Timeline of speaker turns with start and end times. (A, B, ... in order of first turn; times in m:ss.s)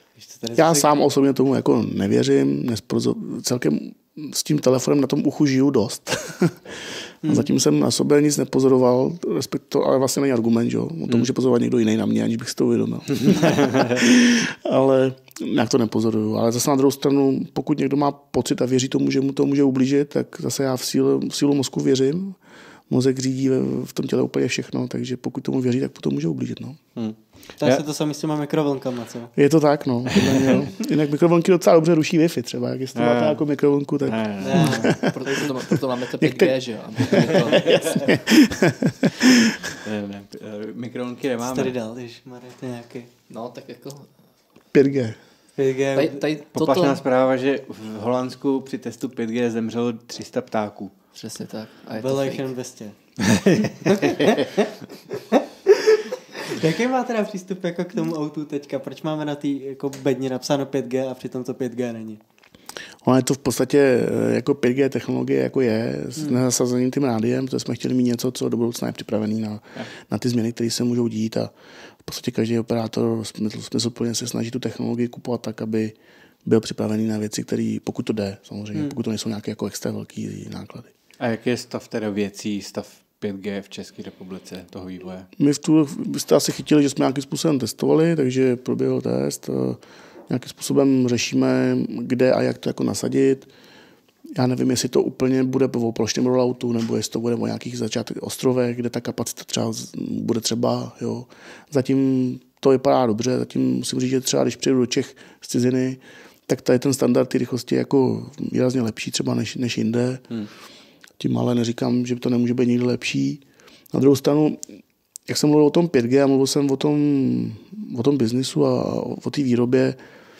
0:00.5-0:22.4 A
0:07.2-0:07.5 B
0:13.2-0:14.0 C
0:22.9-0:26.8 A
0:27.0-0:27.8 C
0:27.6-0:29.3 B
0:29.4-0:35.1 A
0:32.9-0:33.4 C
0:34.0-0:34.8 C
0:34.4-0:35.5 B
0:34.5-0:38.2 D
0:36.2-0:39.7 A
0:39.8-0:41.7 C
0:41.4-0:43.1 B
0:43.3-0:44.1 D
0:44.7-0:45.2 A
0:45.6-0:46.2 B
0:45.9-0:47.0 D
0:46.5-0:50.9 C
0:51.1-0:52.4 D
0:52.0-0:53.0 B
0:53.3-0:54.0 C
0:53.8-1:02.2 B
1:03.0-1:11.5 A
1:12.0-1:20.9 A
1:21.2-1:25.3 C
1:25.4-1:33.5 A
1:34.3-1:50.2 A
1:51.2-1:53.4 A
1:53.9-1:54.6 A
1:55.3-2:00.0 A